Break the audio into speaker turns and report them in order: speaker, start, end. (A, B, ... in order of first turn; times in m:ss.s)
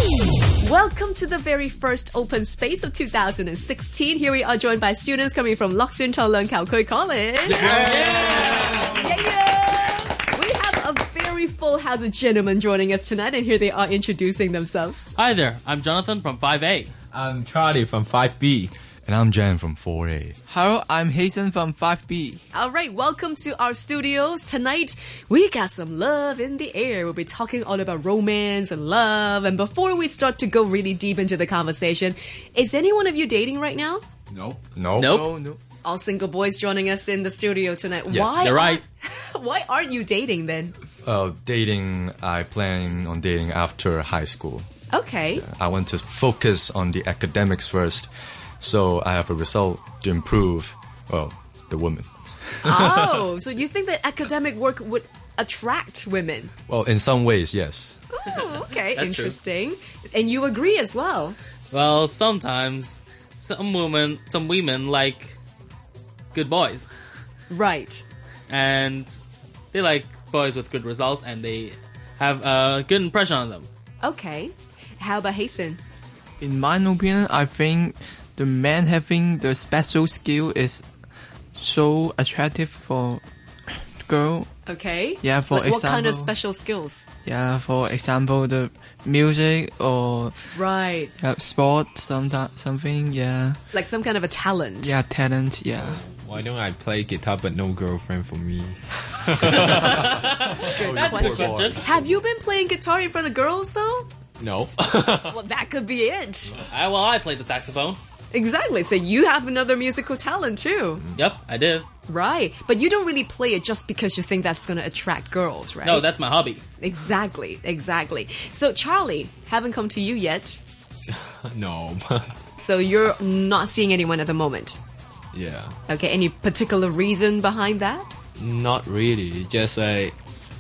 0:00.6-0:07.8 A
0:07.5-0:09.1 B
0:07.7-0:08.9 C
0:08.7-0:15.1 A
0:15.2-0:16.9 C
0:17.1-0:18.7 B
0:19.0-0:20.4 D
0:20.5-0:22.4 E
0:22.5-0:34.0 A
0:34.3-0:34.7 B
0:34.8-0:35.2 D
0:35.0-0:35.3 C
0:35.0-0:35.6 E
0:35.8-0:40.7 A
0:38.1-0:38.5 D
0:38.4-0:38.8 C
0:41.0-0:44.7 D
0:44.9-0:45.4 A
0:45.4-0:52.7 D
0:52.6-0:56.5 A
0:56.7-0:58.0 D
0:58.1-1:01.4 A
0:58.9-0:59.4 C
1:01.7-1:05.4 C
1:06.3-1:06.9 C
1:07.5-1:08.0 A
1:08.5-1:09.2 C
1:09.7-1:13.7 C
1:14.0-1:15.8 A
1:16.4-1:20.8 E
1:21.6-1:23.2 E
1:24.0-1:24.5 E
1:24.7-1:27.0 A
1:25.2-1:26.3 E
1:27.2-1:30.6 E
1:30.5-1:31.1 A
1:31.2-1:33.6 E
1:33.7-1:34.9 A
1:34.8-1:36.0 E
1:35.7-1:40.1 B
1:39.5-1:41.8 C
1:39.8-1:42.2 D
1:40.6-1:44.1 A
1:44.4-1:45.4 B
1:45.3-1:46.5 A
1:46.7-1:48.0 C
1:48.3-1:51.0 A
1:51.2-1:51.9 C
1:52.1-1:56.1 A
1:55.8-1:56.6 C
1:56.8-2:00.6 A
2:01.1-2:02.4 B
2:02.6-2:04.8 A
2:05.3-2:05.8 B
2:05.9-2:08.1 A
2:08.4-2:10.2 B